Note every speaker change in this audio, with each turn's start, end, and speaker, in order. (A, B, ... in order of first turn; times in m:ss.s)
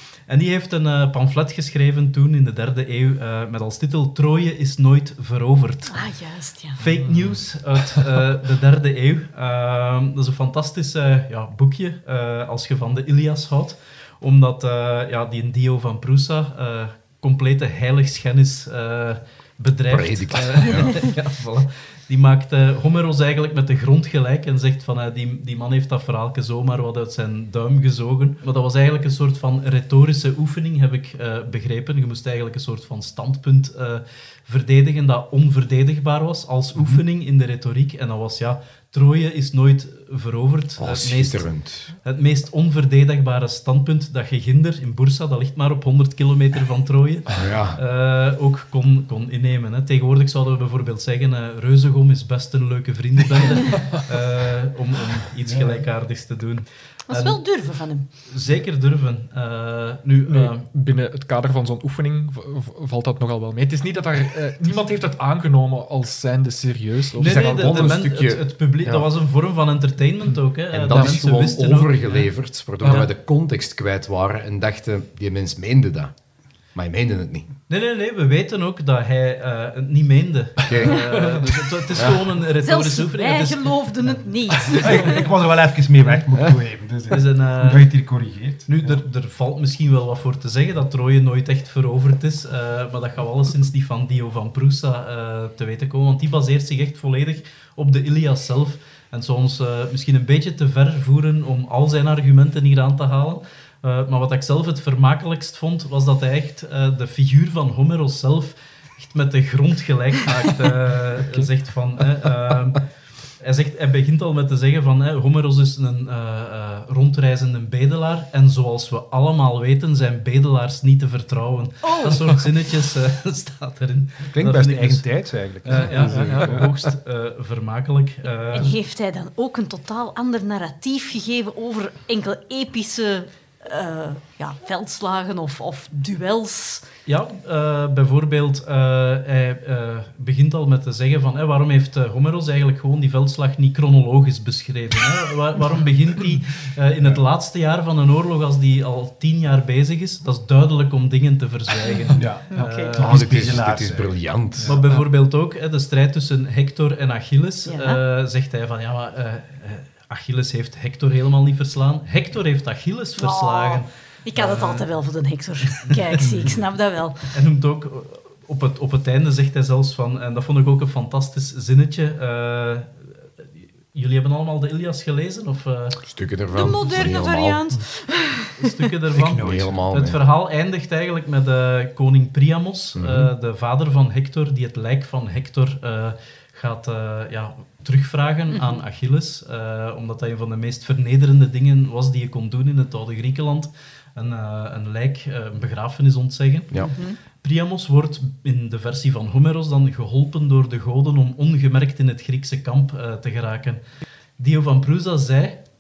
0:00.3-0:06.1 A
0:05.9-0:06.8 B
0:06.8-1:00.7 A
0:19.9-0:21.1 C
0:40.8-0:41.9 C
0:47.4-0:47.8 C
0:55.5-0:55.8 D
0:57.1-0:58.1 B
1:00.3-1:08.0 E
1:07.2-1:12.3 A
1:07.2-1:09.1 C
1:10.7-1:16.1 C
1:10.9-1:11.2 E
1:12.8-1:13.1 A
1:16.7-1:17.6 C
1:17.7-1:24.1 A
1:20.6-1:21.3 C
1:21.9-1:22.2 C
1:22.6-1:25.3 B
1:24.8-1:29.0 D
1:27.1-1:27.9 A
1:28.7-2:05.1 A
2:01.8-2:02.2 B
2:04.3-2:06.7 D
2:05.6-2:08.8 A
2:05.7-2:06.7 E
2:08.5-2:16.8 B
2:17.1-2:33.2 A
2:31.9-2:33.0 B
2:32.1-2:34.8 D
2:33.0-2:34.8 C
2:34.6-2:44.9 A
2:37.7-2:38.0 B
2:43.2-2:47.2 B
2:45.8-2:46.4 A
2:47.3-2:56.0 A
2:56.1-2:57.6 C
2:56.5-2:58.7 B
2:58.6-3:23.8 A
2:59.1-2:59.9 D
2:59.4-3:00.2 C
3:03.0-3:03.3 C
3:08.5-3:08.8 B
3:16.8-3:17.2 B
3:24.4-3:25.6 A